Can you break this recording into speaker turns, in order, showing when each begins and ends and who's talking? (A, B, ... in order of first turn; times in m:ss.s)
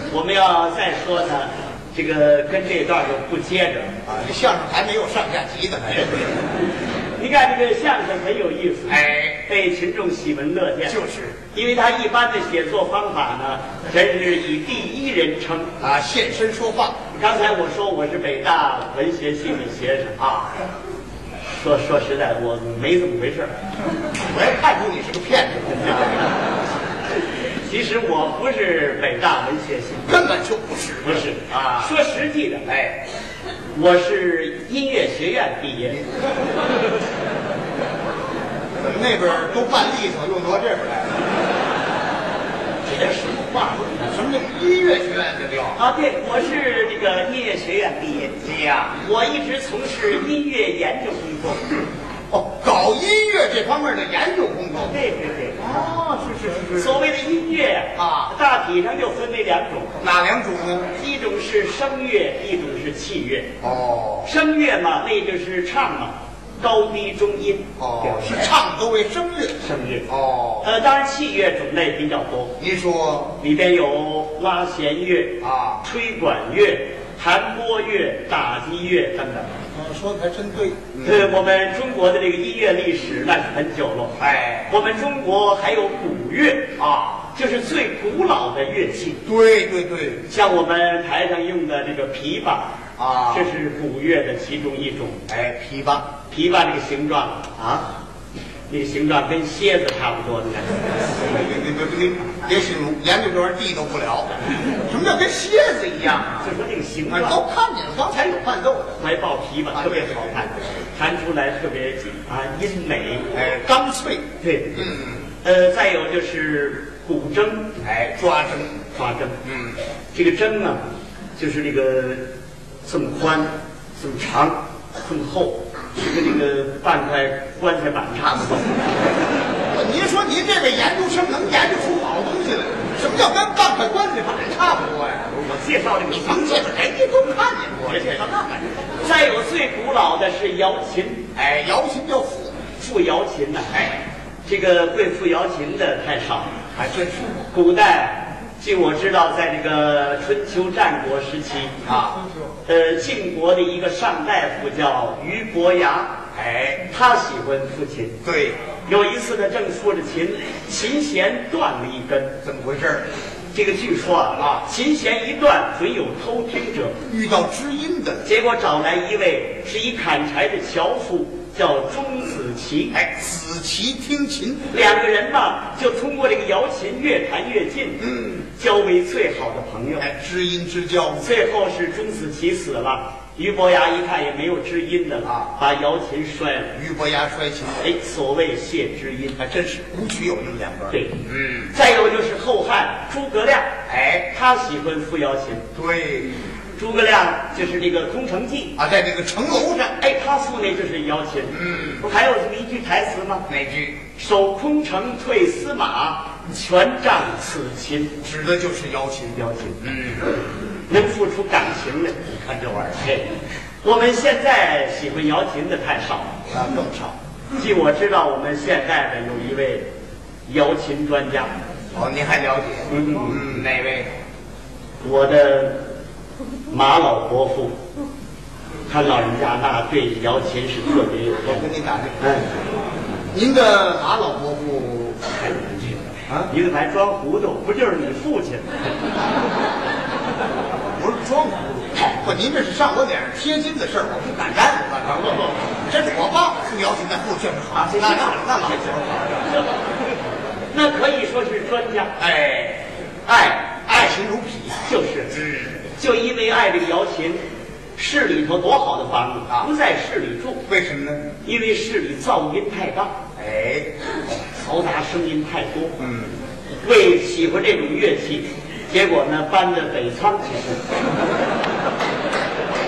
0:00.1-0:03.9 A
0:04.0-0:06.4 B
0:07.2-0:11.0 A
0:08.9-0:09.4 B
0:10.8-0:11.4 B
0:11.5-0:15.8 A
0:15.8-0:17.0 B
0:17.1-0:20.2 A
0:20.2-0:20.7 B
0:21.5-0:23.5 A
0:24.1-0:26.4 B
0:27.5-0:30.2 A
0:30.0-0:32.0 B
0:31.0-0:32.7 A
0:32.6-0:33.0 B
0:33.7-0:36.0 A
0:38.8-0:41.2 B
0:42.8-0:43.9 A
0:43.8-0:45.8 B
0:45.7-0:48.4 A
0:48.4-0:49.0 B
0:49.0-0:51.6 A
0:52.3-0:55.0 B
0:54.9-0:56.0 A
0:55.6-0:57.0 B
0:56.7-1:00.0 A
0:57.9-0:58.3 B
1:00.0-1:00.9 B
1:00.9-1:03.5 A
1:03.6-1:04.3 B
1:04.2-1:08.5 A
1:07.8-1:10.7 B
1:09.6-1:10.0 A
1:10.6-1:12.6 A
1:12.6-1:13.4 B
1:13.4-1:19.6 A
1:15.4-1:15.8 B
1:19.7-1:21.3 B
1:21.0-1:26.7 A
1:24.2-1:24.8 B
1:26.8-1:27.3 B
1:27.3-1:29.2 A
1:29.2-1:30.3 B
1:30.3-1:35.2 A
1:33.0-1:33.5 B
1:35.3-1:36.1 B
1:36.3-1:37.9 A
1:38.7-1:41.1 A
1:41.2-1:46.5 B
1:46.4-1:47.4 A
1:47.0-1:49.0 B
1:48.1-1:48.4 A
1:49.0-1:53.3 A
1:49.7-1:50.4 B
1:53.3-1:55.2 B
1:54.4-1:57.8 A
1:57.8-1:58.8 B
1:58.9-1:59.4 A
1:59.4-1:59.8 B
2:00.1-2:00.8 A
2:01.4-2:02.2 A
2:02.8-2:08.8 A
2:09.7-2:15.5 B
2:15.4-2:16.8 A
2:16.1-2:18.8 B
2:17.8-2:18.3 A
2:19.0-2:21.3 A
2:21.3-2:22.6 B
2:22.8-2:23.9 A
2:23.7-2:24.0 B
2:24.4-2:26.6 A
2:26.7-2:27.4 B
2:27.5-2:31.8 A
2:31.8-2:32.2 B
2:32.6-2:36.2 A
2:36.3-2:36.8 B
2:36.9-2:38.2 A
2:38.2-2:38.6 B
2:38.8-2:42.4 A
2:42.4-2:43.0 B
2:43.5-2:47.0 A
2:44.4-2:44.6 B
2:47.1-2:48.3 B
2:48.2-2:53.0 A
2:52.9-2:54.7 B
2:54.7-3:00.1 A
2:58.0-2:58.4 B
3:00.0-3:01.3 B
3:01.2-3:06.7 A
3:05.2-3:05.5 B
3:06.7-3:07.8 B
3:07.8-3:09.5 A
3:09.4-3:11.7 B
3:10.9-3:13.7 A
3:13.9-3:14.3 B
3:14.3-3:15.6 A
3:15.7-3:16.4 B
3:16.8-3:18.7 A
3:18.8-3:20.0 B
3:20.0-3:23.4 A
3:21.5-3:22.0 B
3:23.5-3:24.0 B
3:24.1-3:28.2 A
3:28.2-3:30.3 B
3:29.3-3:33.3 A
3:33.8-3:36.4 A
3:36.5-3:37.2 B
3:37.5-3:39.9 A
3:40.4-3:41.5 A
3:41.9-3:44.1 B
3:42.9-3:43.6 A
3:45.0-3:45.8 A
3:46.7-3:47.8 A
3:48.9-3:51.6 A
3:51.4-3:52.4 B
3:52.2-3:52.6 A
3:53.3-3:55.2 B
3:55.3-3:58.9 A
4:00.9-4:09.6 B
4:07.7-4:08.9 A
4:10.7-4:12.2 A
4:12.2-4:12.9 B
4:13.2-4:13.8 A
4:13.9-4:15.7 B
4:14.8-4:17.4 A
4:18.0-4:20.6 A
4:20.7-4:21.3 B
4:21.4-4:23.2 A
4:23.4-4:23.9 B
4:24.5-4:26.0 A
4:26.0-4:26.4 B
4:26.8-4:30.9 A